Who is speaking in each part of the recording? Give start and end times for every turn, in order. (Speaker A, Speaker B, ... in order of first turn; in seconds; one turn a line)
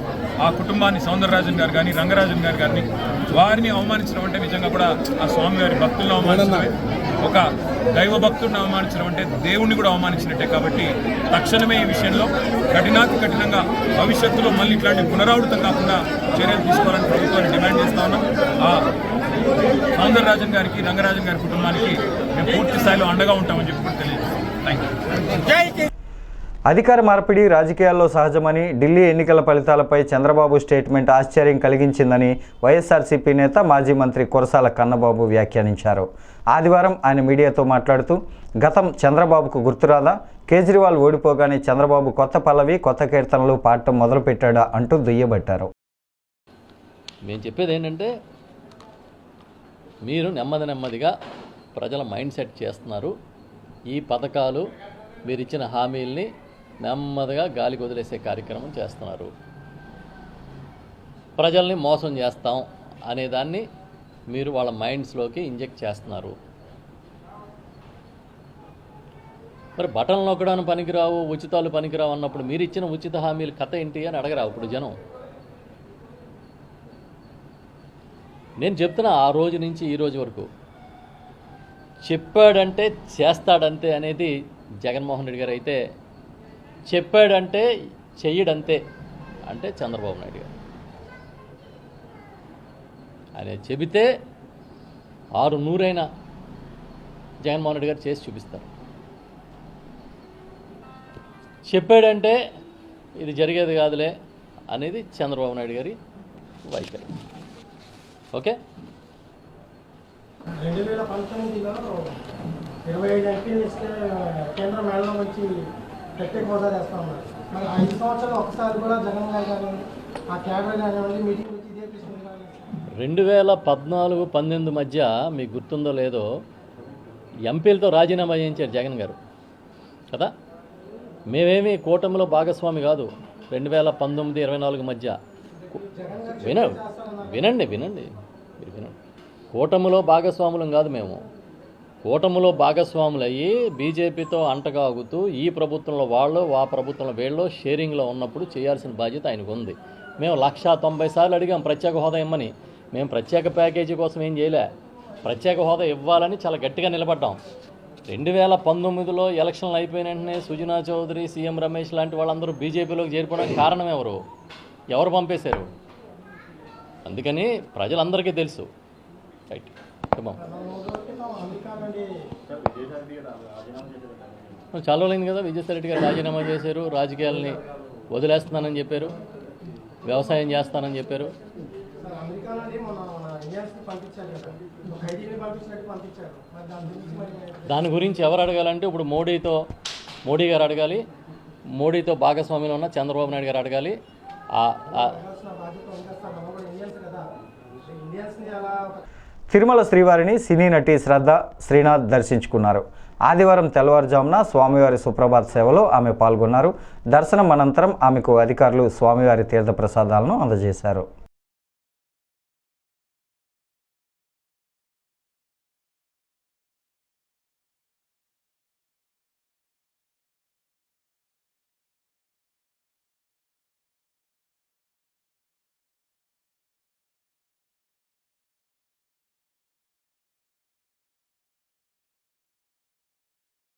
Speaker A: 0.4-18.9
Speaker A: 19.9-24.9
Speaker B: 26.7-45.7
Speaker C: 47.2-48.1
Speaker C: 50.0-51.1
Speaker C: 51.7-53.1
Speaker C: 53.9-54.6
Speaker C: 55.3-56.3
Speaker C: 56.8-59.3
Speaker C: 61.4-63.7
Speaker C: 64.3-66.3
Speaker C: 69.8-74.9
Speaker C: 78.6-80.5
Speaker C: 82.1-85.8
Speaker C: 86.9-87.7
Speaker C: 88.2-88.8
Speaker C: 89.5-90.5
Speaker C: 93.4-94.1
Speaker C: 95.4-96.1
Speaker C: 97.4-98.7
Speaker C: 101.7-102.4
Speaker C: 103.2-104.1
Speaker C: 104.7-106.0
Speaker C: 106.7-107.1
Speaker D: 110.6-111.8
Speaker D: 112.9-115.5
Speaker D: 116.2-122.6
Speaker C: 123.0-126.3
Speaker C: 127.5-129.2
Speaker C: 131.3-135.2
Speaker D: 135.8-137.4
Speaker C: 136.4-138.1
Speaker C: 138.6-138.9
Speaker C: 139.5-141.2
Speaker C: 142.1-154.7
Speaker C: 155.2-157.4
Speaker C: 158.1-164.2
Speaker C: 164.9-165.7
Speaker C: 167.1-168.7
Speaker C: 169.5-170.4
Speaker D: 170.4-172.1
Speaker C: 174.8-177.6
Speaker C: 178.1-179.1
Speaker C: 180.1-181.3
Speaker D: 182.0-187.7
Speaker C: 187.7-189.6
Speaker C: 190.3-191.0
Speaker C: 191.8-194.0
Speaker C: 194.6-195.1
Speaker D: 195.0-197.2
Speaker D: 197.9-199.0
Speaker B: 199.5-211.1